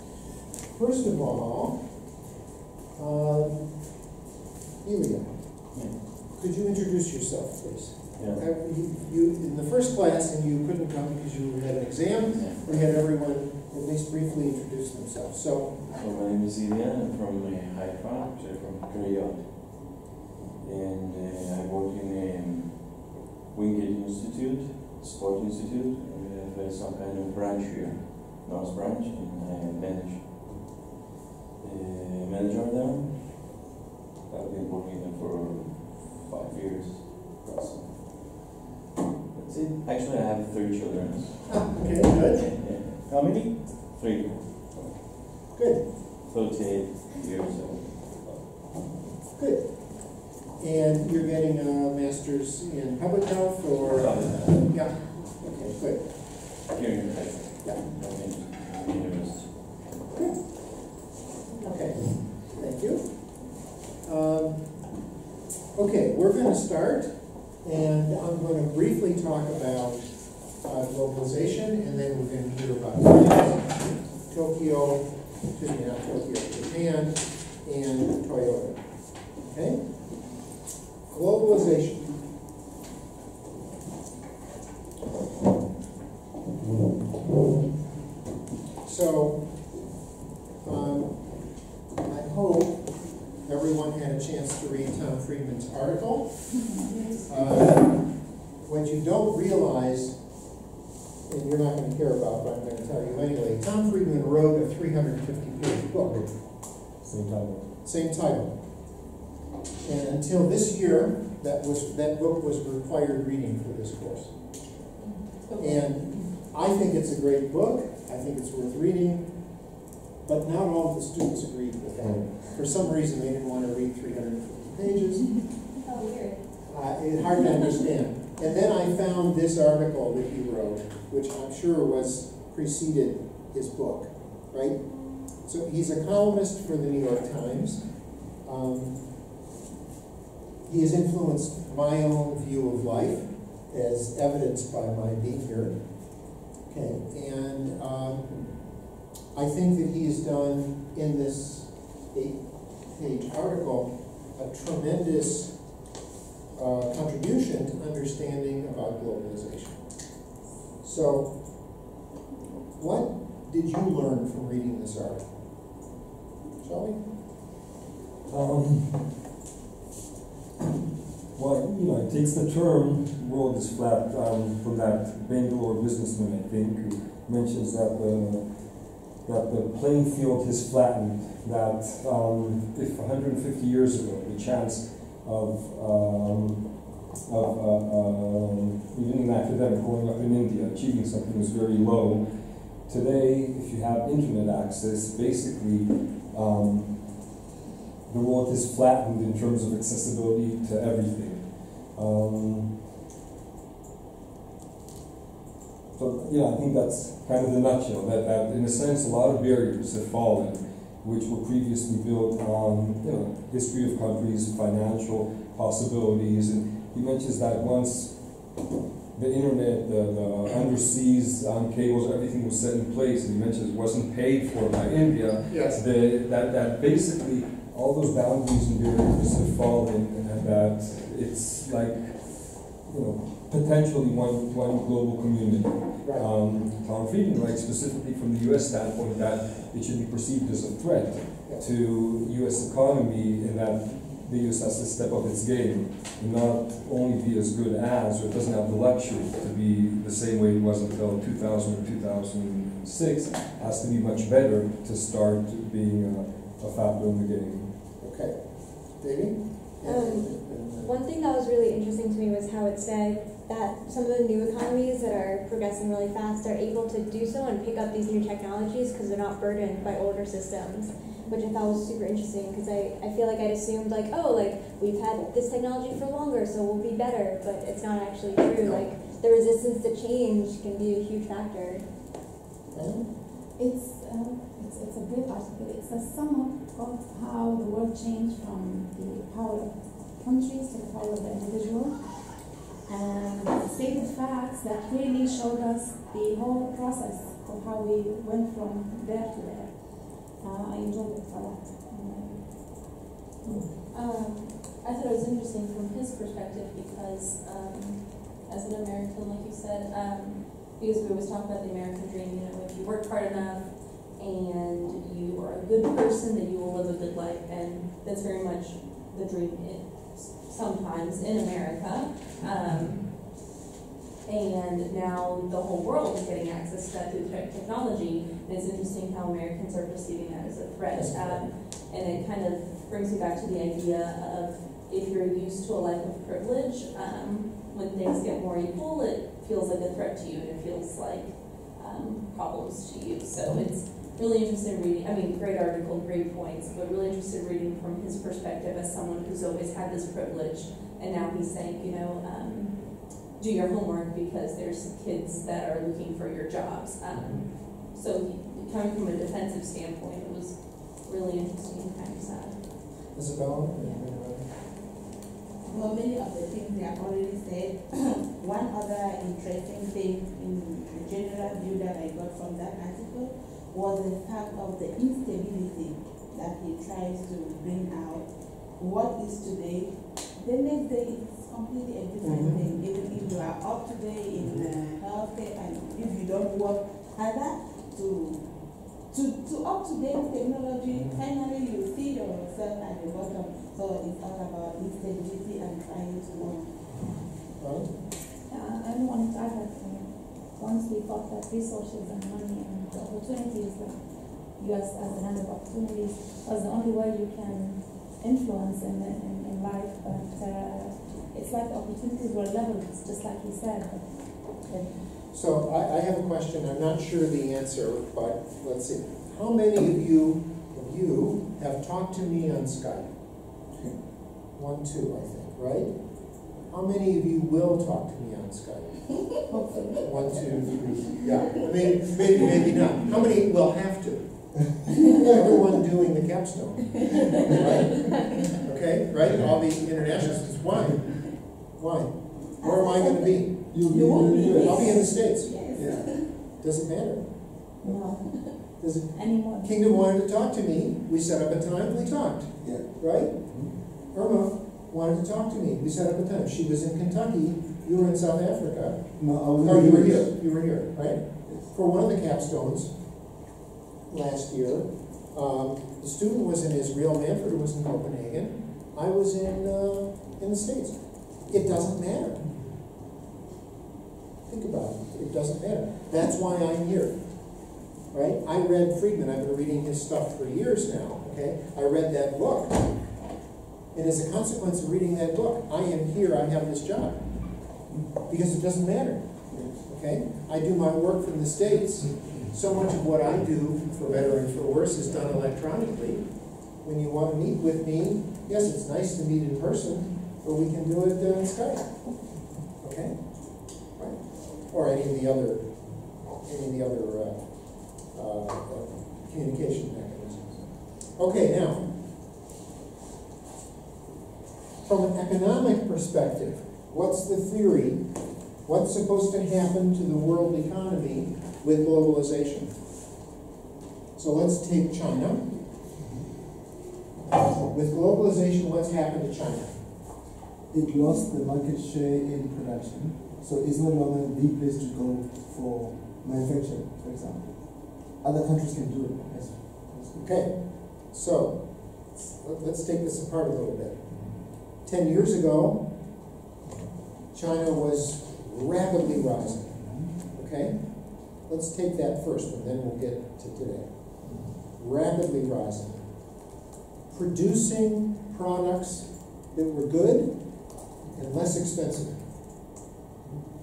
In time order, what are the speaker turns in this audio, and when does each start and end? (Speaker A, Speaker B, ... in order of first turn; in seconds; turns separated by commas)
Speaker A: 0.8-1.8, Speaker A: 3.0-3.6, Speaker A: 4.8-5.7, Speaker B: 5.7-6.0, Speaker A: 6.2-15.8, Speaker B: 8.2-8.4, Speaker B: 12.3-12.7, Speaker B: 15.9-19.9, Speaker B: 20.6-30.4, Speaker B: 31.6-33.7, Speaker B: 34.3-38.2, Speaker B: 39.3-45.0, Speaker A: 41.5-42.5, Speaker A: 45.5-45.9, Speaker B: 46.0-48.5, Speaker A: 49.4-56.1, Speaker B: 53.9-54.6, Speaker B: 56.6-60.0, Speaker A: 60.1-60.5, Speaker A: 61.6-64.6, Speaker A: 65.8-70.1, Speaker A: 70.6-78.8, Speaker A: 79.4-79.8, Speaker A: 81.1-82.1, Speaker A: 88.8-89.4, Speaker A: 90.6-91.4, Speaker A: 92.0-96.6, Speaker C: 96.6-97.1, Speaker A: 97.3-100.2, Speaker A: 101.3-106.3, Speaker D: 107.0-107.6, Speaker A: 107.8-108.5, Speaker A: 109.8-114.3, Speaker E: 115.5-116.2, Speaker A: 115.6-119.3, Speaker A: 120.2-125.5, Speaker F: 125.8-126.4, Speaker A: 126.7-137.8, Speaker A: 138.4-139.0, Speaker A: 140.7-145.8, Speaker A: 146.7-148.3, Speaker A: 149.3-155.5, Speaker A: 156.6-159.8, Speaker A: 160.8-161.3, Speaker A: 162.8-165.2, Speaker A: 166.6-167.2, Speaker D: 168.3-169.2, Speaker D: 171.3-197.3, Speaker D: 198.1-202.8, Speaker D: 205.9-218.6, Speaker D: 219.1-257.7, Speaker A: 225.5-225.8, Speaker A: 236.0-236.3, Speaker A: 241.4-241.7, Speaker A: 258.0-261.0, Speaker F: 259.8-281.9, Speaker A: 278.6-278.9, Speaker A: 282.7-283.1, Speaker C: 283.6-292.2, Speaker C: 292.9-302.8, Speaker E: 303.9-323.2, Speaker E: 324.2-362.6, Speaker A: 330.9-331.4, Speaker A: 357.1-357.4, Speaker A: 363.1-364.5, Speaker G: 365.6-396.7, Speaker A: 382.2-382.6, Speaker A: 397.6-397.9, Speaker C: 398.5-414.1, Speaker A: 414.6-423.1, Speaker A: 424.6-425.9, Speaker A: 426.7-429.4, Speaker C: 429.5-429.9, Speaker A: 430.0-443.8, Speaker G: 442.6-446.3, Speaker H: 443.7-445.1, Speaker A: 444.6-445.5, Speaker H: 445.7-446.3, Speaker A: 446.6-447.2, Speaker C: 447.8-448.3, Speaker G: 448.3-448.5, Speaker A: 448.8-453.5, Speaker C: 449.1-449.8, Speaker H: 452.6-452.9, Speaker A: 454.1-462.9, Speaker H: 459.2-460.3, Speaker A: 464.1-472.4, Speaker A: 474.5-477.1, Speaker A: 478.1-482.9, Speaker A: 483.9-487.2, Speaker A: 488.3-489.2, Speaker H: 489.5-489.8, Speaker A: 489.9-496.2, Speaker A: 496.8-502.1, Speaker A: 502.8-511.9, Speaker A: 514.8-518.0, Speaker A: 518.6-522.7, Speaker A: 524.2-525.5, Speaker A: 527.6-529.8, Speaker H: 530.7-540.4, Speaker A: 540.2-544.0, Speaker A: 544.8-545.8, Speaker A: 547.3-553.9, Speaker A: 554.8-556.0, Speaker A: 557.1-560.3, Speaker A: 561.1-562.2